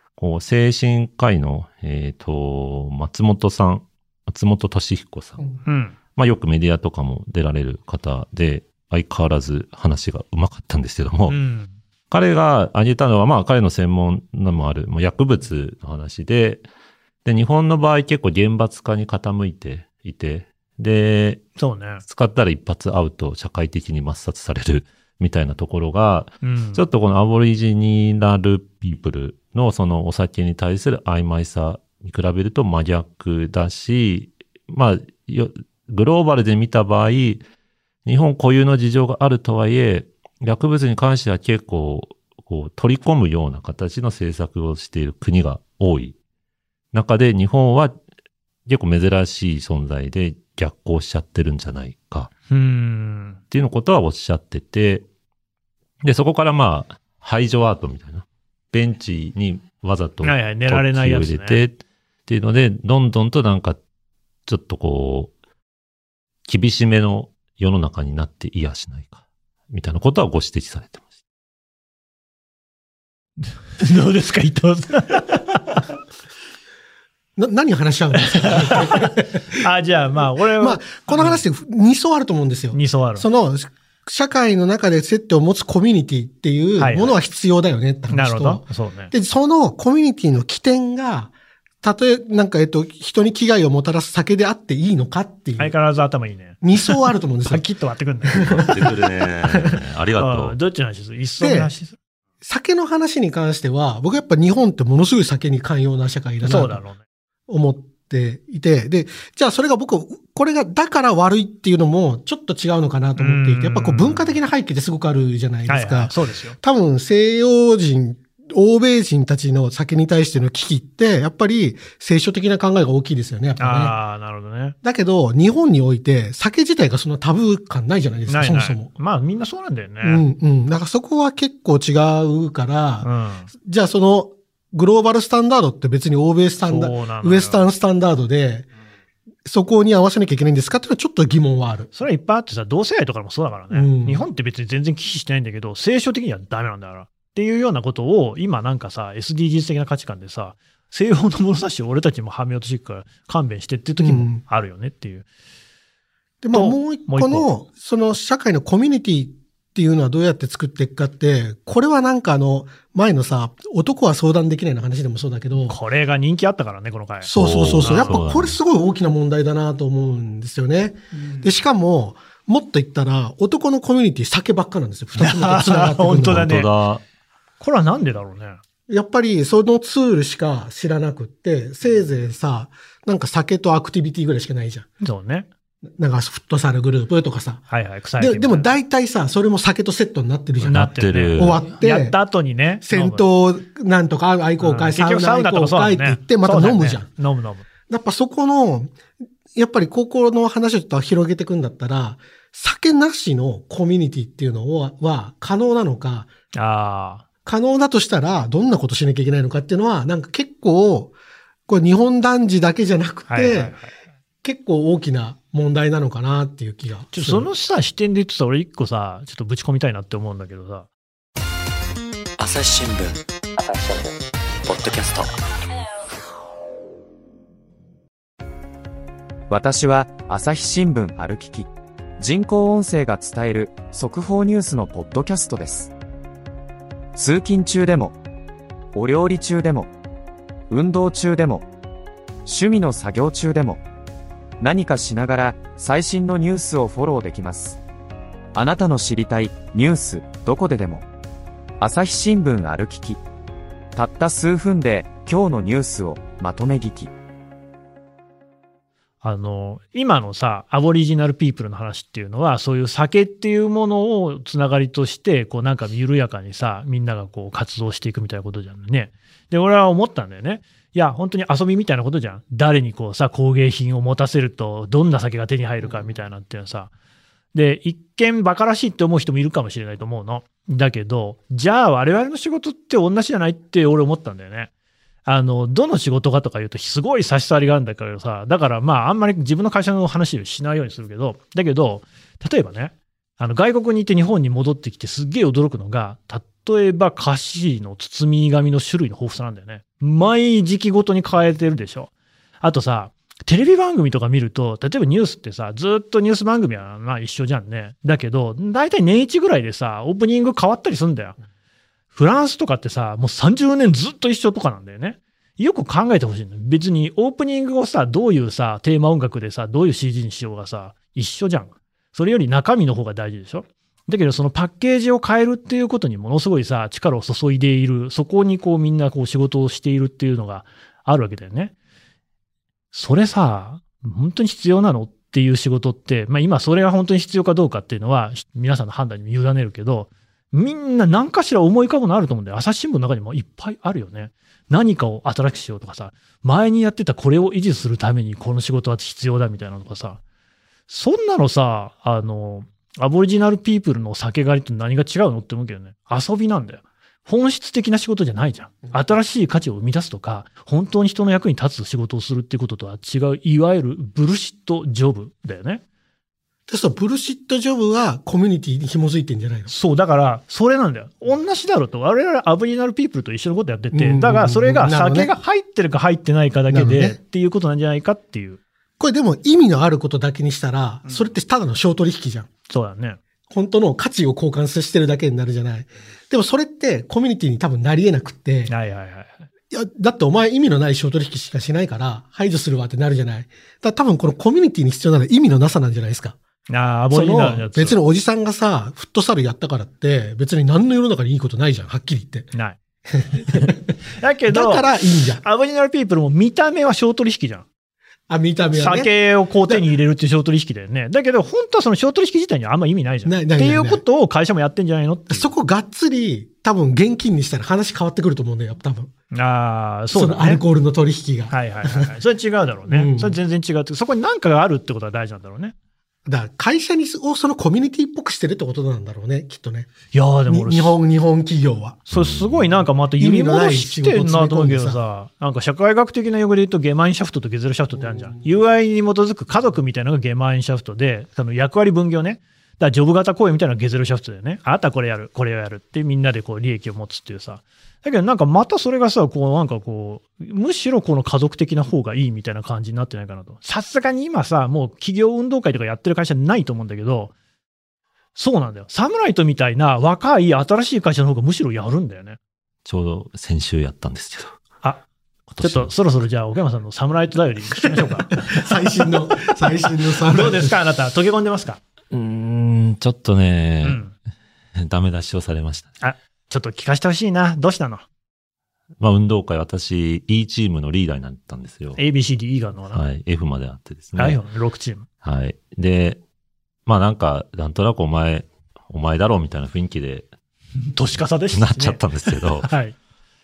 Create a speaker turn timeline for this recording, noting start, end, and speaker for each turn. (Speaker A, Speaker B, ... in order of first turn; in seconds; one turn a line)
Speaker A: 0.2-5.4
Speaker B: 5.7-6.0
Speaker A: 6.1-11.3
Speaker B: 11.3-11.7
Speaker A: 12.1-16.6
Speaker A: 17.2-21.4
Speaker B: 21.6-22.0
Speaker A: 22.0-37.4
Speaker B: 26.4-26.8
Speaker A: 38.0-46.1
Speaker A: 46.9-48.0
Speaker A: 48.6-52.3
Speaker B: 52.5-53.4
Speaker A: 53.5-55.0
Speaker A: 56.0-63.8
Speaker B: 60.2-61.6
Speaker A: 64.5-65.3
Speaker A: 66.5-71.0
Speaker B: 73.4-75.8
Speaker C: 77.4-79.6
Speaker B: 78.3-81.4
Speaker C: 80.6-95.8
Speaker B: 82.7-83.2
Speaker B: 86.8-87.2
Speaker B: 88.1-89.1
Speaker B: 95.6-98.7
Speaker C: 96.6-97.6
Speaker C: 98.3-98.7
Speaker A: 98.5-100.6
Speaker B: 100.2-101.9
Speaker C: 101.4-101.7
Speaker C: 102.4-106.8
Speaker B: 106.4-107.0
Speaker C: 107.5-124.0
Speaker B: 113.2-114.4
Speaker B: 115.7-116.6
Speaker B: 123.6-124.8
Speaker C: 124.8-128.9
Speaker B: 128.3-130.2
Speaker C: 130.0-138.7
Speaker B: 133.0-133.5
Speaker B: 136.7-137.7
Speaker C: 139.4-141.9
Speaker B: 141.9-155.2
Speaker C: 143.7-144.2
Speaker C: 154.0-154.4
Speaker C: 156.4-165.8
Speaker B: 156.5-157.5
Speaker B: 165.7-168.2
Speaker C: 167.2-176.5
Speaker A: 167.3-168.6
Speaker B: 175.2-176.7
Speaker A: 176.2-177.0
Speaker B: 177.6-178.6
Speaker C: 178.9-184.9
Speaker B: 185.0-185.5
Speaker C: 186.0-192.2
Speaker B: 187.7-188.7
Speaker B: 190.6-193.3
Speaker A: 190.7-191.6
Speaker C: 192.8-197.1
Speaker B: 194.6-197.7
Speaker C: 197.9-199.0
Speaker C: 199.5-206.3
Speaker B: 206.5-207.2
Speaker C: 207.4-211.1
Speaker C: 211.7-213.8
Speaker B: 213.3-213.9
Speaker C: 214.4-217.5
Speaker B: 217.1-220.9
Speaker D: 222.4-224.1
Speaker D: 224.6-225.3
Speaker E: 229.5-235.9
Speaker E: 237.1-238.2
Speaker E: 238.9-239.9
Speaker E: 240.7-241.7
Speaker E: 242.4-243.8
Speaker E: 244.6-247.8
Speaker E: 248.5-251.1
Speaker E: 251.8-253.2
Speaker E: 253.9-257.1
Speaker B: 259.2-276.9
Speaker B: 277.5-284.7
Speaker B: 285.2-302.1
Speaker B: 302.6-311.4
Speaker B: 312.1-331.7
Speaker B: 332.9-350.2
Speaker B: 350.9-365.8
Speaker C: 366.7-369.7
Speaker B: 369.7-378.6
Speaker C: 373.9-375.3
Speaker C: 376.7-377.2
Speaker C: 379.0-382.5
Speaker B: 382.7-383.2
Speaker C: 383.5-388.7
Speaker B: 388.7-389.3
Speaker C: 389.7-396.4
Speaker B: 396.7-398.0
Speaker C: 397.1-402.5
Speaker B: 402.5-402.8
Speaker C: 403.1-403.9
Speaker B: 403.5-404.9
Speaker C: 404.5-405.4
Speaker B: 405.4-407.6
Speaker C: 408.3-409.1
Speaker B: 408.7-415.5
Speaker C: 413.2-414.0
Speaker C: 415.3-419.1
Speaker B: 419.3-420.6
Speaker C: 420.1-422.1
Speaker B: 421.5-425.7
Speaker C: 422.9-423.4
Speaker C: 426.2-429.9
Speaker B: 430.1-431.0
Speaker C: 430.5-432.0
Speaker B: 432.1-457.3
Speaker A: 432.1-432.7
Speaker C: 433.2-435.0
Speaker C: 438.0-438.3
Speaker B: 458.4-462.4
Speaker A: 462.8-464.6
Speaker A: 465.5-465.9
Speaker B: 465.6-468.6
Speaker C: 468.5-470.7
Speaker B: 470.2-471.8
Speaker A: 472.1-474.0
Speaker B: 473.8-474.1
Speaker A: 474.8-475.9
Speaker B: 476.0-478.0
Speaker A: 479.0-482.0
Speaker B: 482.0-483.0
Speaker A: 482.9-484.4
Speaker B: 484.1-485.1
Speaker A: 485.2-486.2
Speaker A: 486.9-490.3
Speaker B: 490.9-492.9
Speaker A: 491.5-492.7